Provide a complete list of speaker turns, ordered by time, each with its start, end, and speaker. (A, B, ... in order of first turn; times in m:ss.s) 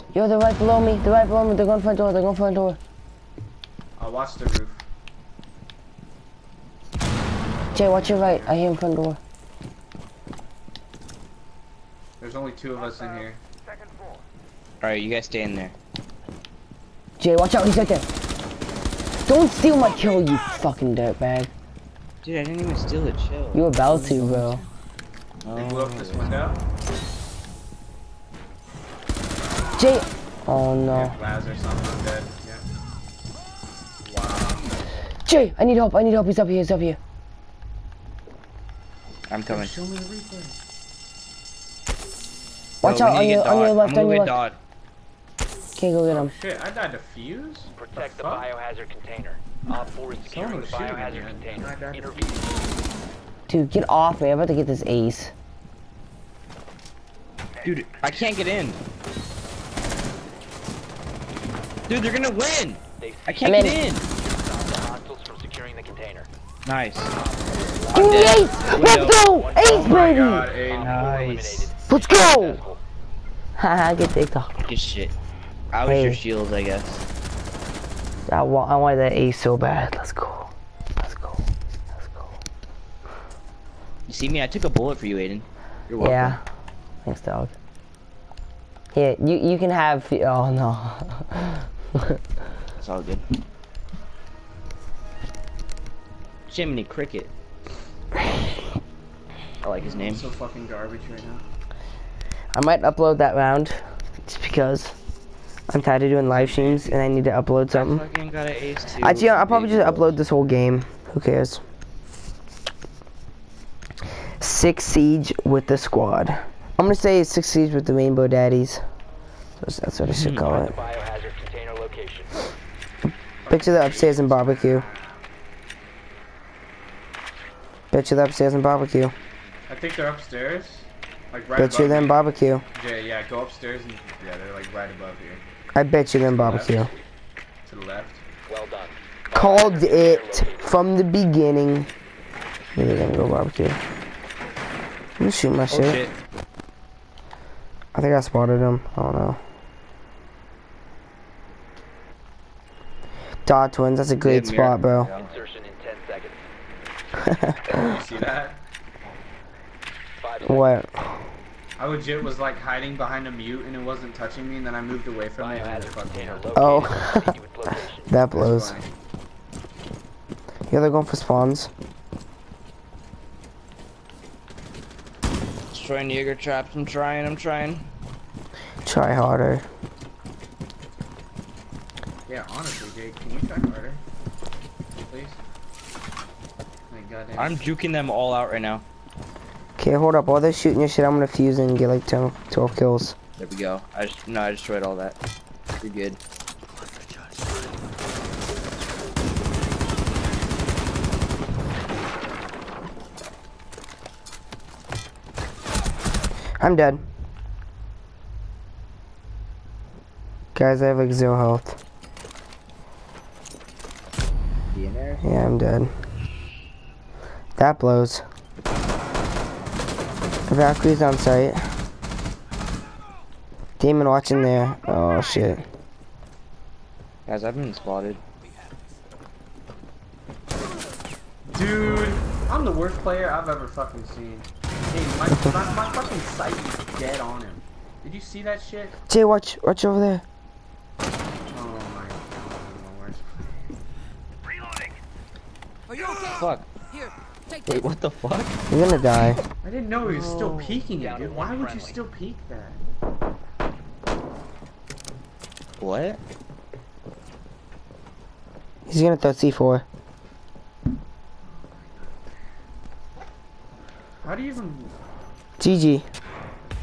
0:00.1-0:02.8 A
0:04.0-0:04.8 B
0:07.6-0:08.6 B
0:07.7-0:09.2 A
0:12.2-0:13.4 B
0:14.8-0:15.8 C
0:17.2-0:18.1 A
0:19.3-0:21.5 A
0:22.2-0:24.6 C
0:23.5-0:24.6 A
0:25.4-0:26.3 C
0:25.5-0:26.6 B
0:29.8-0:31.2 A
0:30.9-0:32.6 B
0:34.0-0:34.8 B
0:35.3-0:37.0 A
0:39.3-0:39.7 C
0:39.5-0:40.6 B
0:42.8-0:44.4 A
0:42.8-0:44.6 C
0:45.8-0:46.3 A
0:46.1-0:48.5 B
0:47.7-0:52.6 D
0:50.2-0:52.5 B
0:53.5-0:55.3 A
0:57.6-0:58.8 C
1:01.9-1:04.0 C
1:03.0-1:06.3 D
1:03.4-1:03.8 A
1:06.7-1:07.2 C
1:07.1-1:08.9 D
1:07.9-1:10.5 A
1:07.9-1:09.4 C
1:09.5-1:10.0 D
1:09.6-1:11.3 B
1:10.6-1:12.8 D
1:10.8-1:11.7 C
1:11.9-1:12.6 A
1:13.6-1:14.6 A
1:14.7-1:15.1 C
1:15.7-1:17.0 C
1:15.8-1:16.2 A
1:18.3-1:21.5 A
1:24.1-1:26.4 C
1:26.0-1:26.4 A
1:27.0-1:27.5 A
1:28.9-1:32.2 A
1:32.8-1:33.3 C
1:36.5-1:37.3 C
1:39.6-1:40.3 C
1:39.8-1:41.4 B
1:42.5-1:45.0 A
1:45.7-1:48.0 A
1:46.6-1:47.0 B
1:47.7-1:50.2 C
1:49.0-1:51.6 A
1:54.4-1:58.8 A
1:59.6-2:00.8 A
2:00.1-2:00.5 C
2:00.5-2:02.3 D
2:03.4-2:05.3 B
2:03.5-2:04.9 A
2:07.9-2:09.1 A
2:09.7-2:12.2 B
2:11.6-2:12.6 A
2:12.7-2:15.4 B
2:15.8-2:16.9 A
2:16.2-2:16.9 B
2:17.6-2:18.2 B
2:18.5-2:20.8 D
2:19.3-2:21.9 A
2:22.8-2:23.8 A
2:25.2-2:26.0 A
2:25.7-2:26.1 C
2:27.9-2:29.4 A
2:33.4-2:35.1 A
2:34.2-2:35.4 C
2:35.2-2:36.5 D
2:37.2-2:37.9 A
2:37.7-2:38.6 B
2:40.2-2:40.7 D
2:40.4-2:41.2 A
2:41.8-2:46.5 B
2:45.4-2:48.1 D
2:46.6-2:47.3 A
2:48.1-2:48.8 A
2:48.3-2:48.9 B
2:50.7-2:51.7 A
2:55.7-2:57.9 C
2:58.8-2:59.7 A
3:02.3-3:04.0 B
3:05.0-3:05.4 B
3:06.9-3:07.7 B
3:07.4-3:08.8 C
3:09.8-3:13.2 A
3:13.4-3:15.2 C
3:15.8-3:16.2 C
3:26.6-3:27.0 A
3:30.6-3:31.8 A
3:34.7-3:35.2 C
3:35.2-3:35.9 A
3:37.6-3:38.2 A
3:40.5-3:41.6 A
3:43.8-3:45.6 A
3:47.3-3:48.2 C
3:51.5-3:59.0 B
3:59.1-4:00.2 A
4:01.5-4:03.5 B
4:06.2-4:06.7 C
4:07.6-4:08.6 C
4:08.7-4:09.4 A
4:09.6-4:12.8 B
4:10.0-4:10.9 C
4:11.0-4:12.0 D
4:15.8-4:16.2 C
4:18.9-4:19.8 A
4:24.2-4:25.0 B
4:25.6-4:26.1 A